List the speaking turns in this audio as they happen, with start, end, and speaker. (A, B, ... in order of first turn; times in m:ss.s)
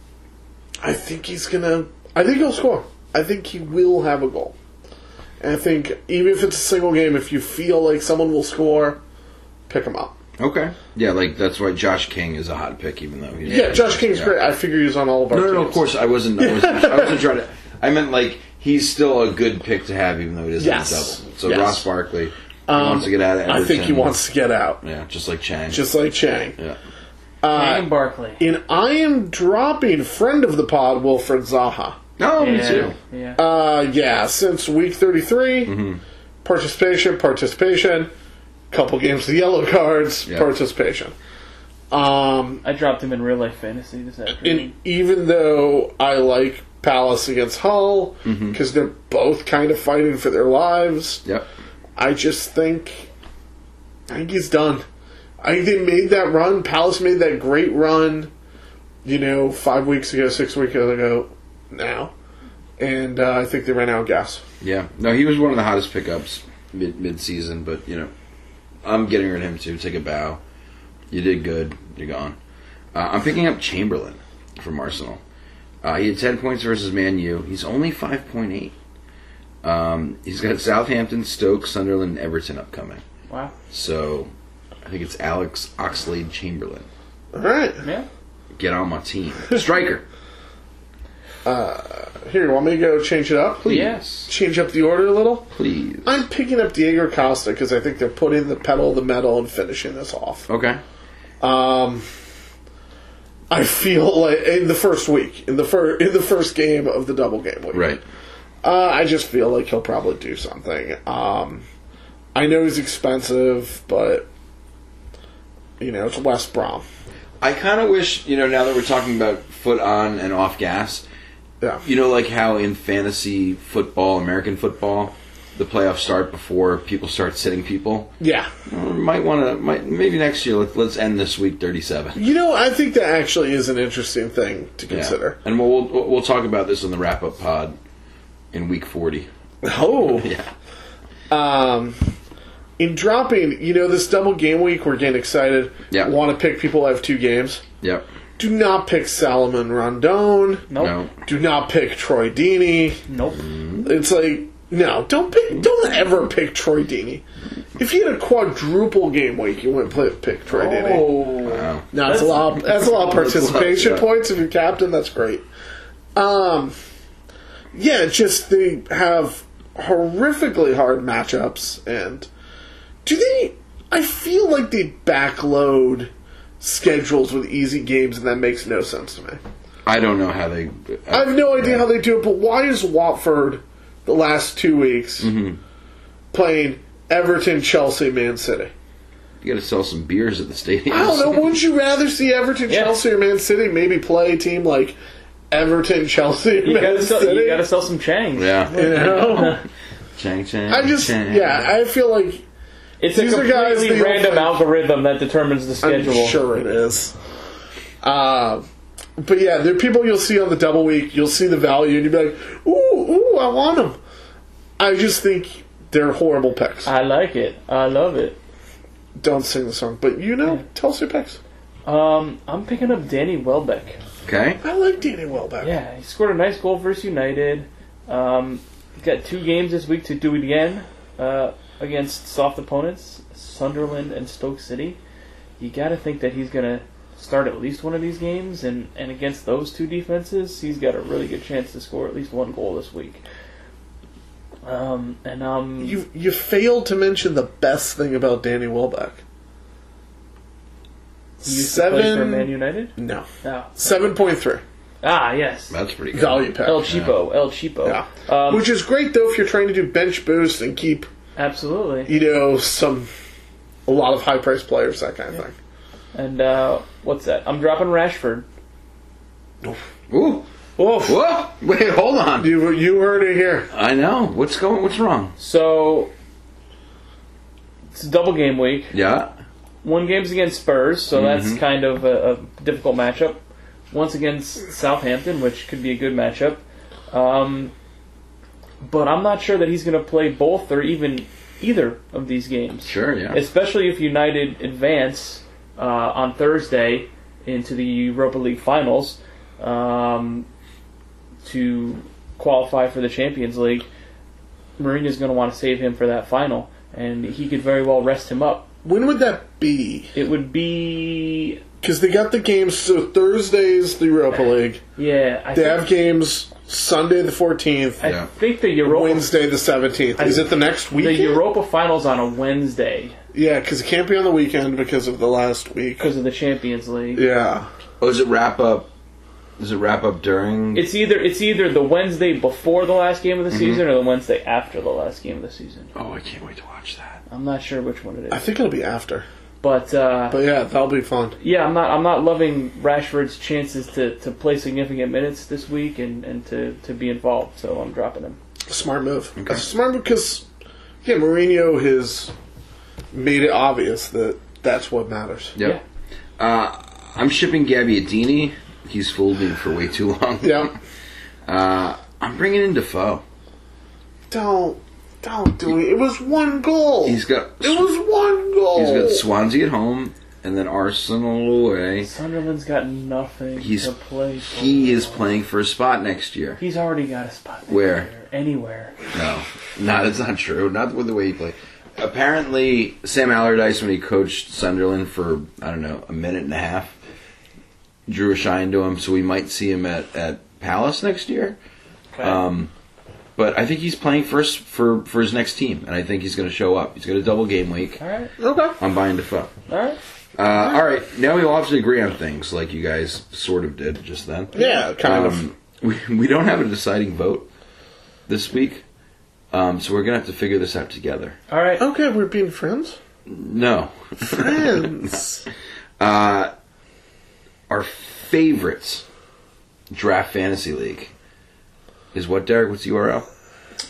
0:00.8-0:04.6 A
0:05.4-0:09.0 A
0:09.7-0:10.2 A
0:10.4-0:14.4 B
0:13.5-0:15.8 A
0:15.3-0:24.2 B
0:16.4-0:17.2 A
0:20.6-0:21.9 A
0:22.7-0:24.8 A
0:24.8-0:25.8 B
0:25.7-0:26.6 A
0:27.4-0:27.9 A
0:27.5-0:28.4 C
0:28.4-0:32.0 A
0:32.2-0:33.0 B
0:32.4-0:33.4 C
0:33.4-0:35.8 A
0:35.7-0:36.0 B
0:36.4-0:38.1 A
0:38.7-0:41.1 A
0:41.9-0:42.6 A
0:42.6-0:44.7 C
0:44.4-0:51.2 A
0:48.2-0:48.6 B
0:52.0-0:53.1 A
0:54.1-0:54.8 A
0:55.4-0:58.3 A
0:59.0-1:02.1 A
1:02.8-1:04.4 A
1:04.6-1:08.1 B
1:08.8-1:10.4 B
1:11.1-1:12.4 B
1:12.9-1:15.2 B
1:15.8-1:18.8 B
1:19.6-1:23.0 B
1:23.3-1:23.5 C
1:23.7-1:24.3 B
1:24.8-1:26.9 B
1:27.3-1:27.8 A
1:27.8-1:28.1 C
1:28.6-1:30.0 B
1:31.4-1:35.5 A
1:33.6-1:34.3 B
1:33.6-1:34.0 C
1:35.5-1:36.2 B
1:36.0-1:40.5 A
1:40.5-1:40.8 B
1:41.4-1:42.1 A
1:43.5-1:47.9 A
1:47.7-1:48.0 B
1:48.6-1:51.6 A
1:52.4-1:54.3 A
1:55.8-1:56.8 A
1:57.4-2:01.0 B
2:01.8-2:08.1 B
2:08.2-2:08.5 A
2:08.7-2:12.2 B
2:12.2-2:15.4 A
2:14.9-2:17.8 B
2:18.5-2:19.3 B
2:19.6-2:20.3 A
2:19.9-2:20.5 B
2:21.3-2:22.0 A
2:22.8-2:27.6 A
2:27.8-2:28.1 B
2:28.4-2:30.7 A
2:30.7-2:31.0 C
2:30.8-2:31.1 B
2:31.2-2:33.0 A
2:33.1-2:33.4 C
2:33.4-2:33.9 B
2:33.8-2:37.2 A
2:37.8-2:41.2 A
2:40.5-2:42.6 C
2:41.4-2:41.9 B
2:41.9-2:45.4 A
2:42.7-2:44.1 B
2:46.2-2:46.8 A
2:47.7-2:52.3 A
2:53.0-2:59.4 A
2:59.9-3:01.9 B
3:01.1-3:05.3 A
3:05.2-3:05.6 B
3:06.3-3:08.7 A
3:09.4-3:11.6 B
3:10.9-3:15.0 A
3:12.7-3:13.0 C
3:15.5-3:17.6 A
3:16.6-3:19.6 C
3:18.4-3:19.6 B
3:18.7-3:19.6 A
3:20.2-3:21.7 B
3:20.7-3:22.4 A
3:23.0-3:26.4 C
3:23.1-3:24.6 A
3:25.8-3:27.2 A
3:28.0-3:28.7 A
3:29.2-3:34.0 A
3:34.8-3:36.9 A
3:36.9-3:38.4 C
3:39.2-3:41.4 A
3:41.9-3:44.0 C
3:44.2-3:44.6 B
3:44.6-3:45.8 A
3:45.6-3:55.0 C
3:55.6-4:03.2 C
4:04.6-4:06.0 C
4:05.8-4:09.2 A
4:11.4-4:14.6 A
4:11.4-4:13.7 C
4:15.0-4:15.8 C
4:15.7-4:17.1 B
4:16.1-4:16.8 A
4:16.6-4:18.7 C
4:17.8-4:21.1 A
4:21.4-4:22.1 C
4:22.1-4:23.1 A
4:23.9-4:25.6 A
4:26.1-4:28.5 C
4:30.1-4:30.5 B
4:30.8-4:31.2 A
4:31.0-4:32.5 B
4:32.4-4:33.7 A
4:33.7-4:35.4 B
4:35.4-4:36.1 C
4:37.9-4:38.9 C
4:38.9-4:39.4 B
4:39.8-4:47.7 C
4:41.1-4:41.6 B
4:48.8-5:00.5 C
4:52.9-4:53.4 B
5:01.4-5:03.9 C
5:04.8-5:08.7 C
5:08.8-5:10.1 A
5:10.1-5:11.6 C
5:11.8-5:14.8 A
5:14.3-5:15.9 C
5:15.6-5:18.0 A
5:18.0-5:19.3 C
5:18.0-5:18.3 B
5:18.8-5:21.4 A
5:20.2-5:23.2 C
5:23.3-5:26.1 A
5:26.0-5:27.3 C
5:27.2-5:27.7 A
5:28.0-5:28.9 B
5:29.6-5:30.8 B
5:30.7-5:35.9 C
5:33.5-5:33.8 B
5:36.0-5:37.2 B
5:37.3-5:38.5 C
5:38.3-5:39.3 A
5:39.6-5:40.4 C
5:40.3-5:41.4 A
5:41.4-5:48.4 C
5:48.7-5:50.5 A
5:49.4-5:49.6 B
5:51.0-5:52.3 A
5:53.1-5:55.6 A
5:56.4-6:00.7 B
6:00.4-6:00.7 A
6:01.5-6:03.2 B
6:04.3-6:09.2 A
6:07.0-6:07.9 B
6:08.7-6:12.1 B
6:12.0-6:15.2 C
6:13.6-6:13.9 B
6:14.4-6:16.6 B
6:16.6-6:19.0 C
6:17.7-6:18.1 B
6:19.1-6:27.0 B
6:28.1-6:31.6 B
6:32.1-6:32.4 C
6:32.2-6:32.7 B
6:33.4-6:38.0 B
6:38.0-6:38.3 C
6:38.4-6:38.8 A
6:38.8-6:39.5 B
6:39.7-6:40.0 C
6:40.4-6:47.5 B
6:44.5-6:45.4 A
6:44.6-6:44.8 C
6:48.3-6:48.8 B
6:49.5-6:51.4 B
6:51.5-6:51.8 C
6:51.8-6:53.0 A
6:53.3-6:55.1 B
6:54.2-6:55.5 A
6:56.0-6:56.5 B
6:57.7-6:59.0 B
6:59.9-7:01.1 B
7:02.1-7:03.3 B